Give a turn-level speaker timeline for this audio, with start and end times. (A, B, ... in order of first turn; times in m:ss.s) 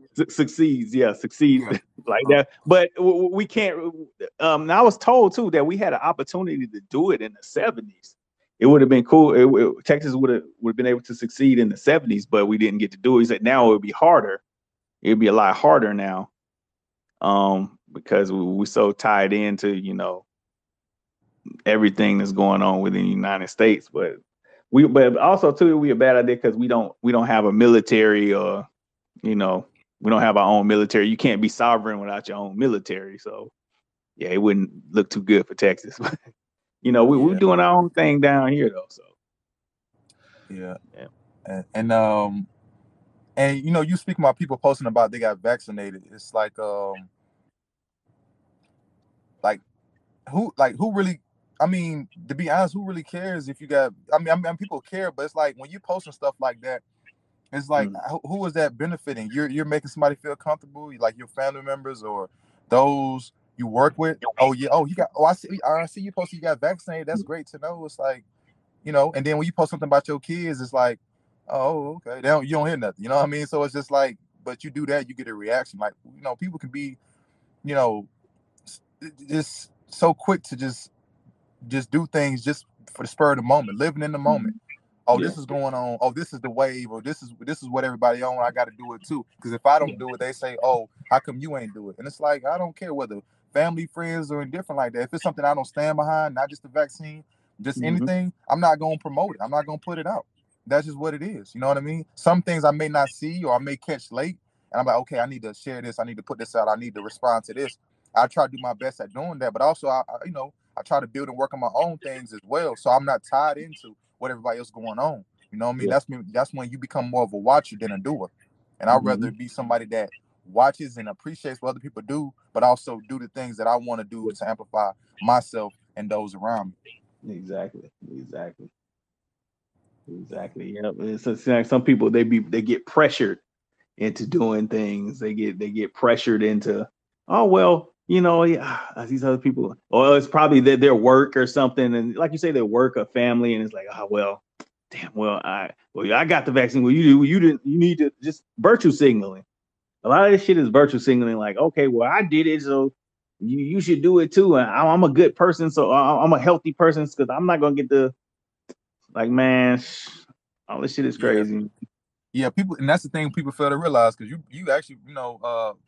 0:00.2-0:14.4 A
0:01.6-0:02.4 B
0:15.0-0:16.3 A
0:17.2-0:20.3 A
0:21.7-0:24.2 A
0:24.7-0:28.6 A
0:29.2-0:33.5 A
0:34.2-0:36.2 A
0:36.8-0:39.1 A
0:37.1-0:37.4 B
0:40.5-0:40.8 B
0:41.5-0:42.5 B
0:43.4-0:47.1 B
0:50.3-0:56.8 B
0:57.5-1:08.2 B
1:08.8-1:17.0 B
1:17.6-1:18.1 B
1:18.7-1:20.9 B
1:21.7-1:24.5 B
1:24.3-1:24.5 A
1:25.1-2:06.8 B
1:25.1-1:25.4 A
1:37.8-1:38.1 A
1:58.9-1:59.3 A
2:07.2-2:08.7 A
2:10.1-2:13.4 A
2:14.0-2:29.4 A
2:30.0-2:38.1 A
2:39.1-2:41.7 A
2:41.2-2:41.5 B
2:42.3-2:45.8 B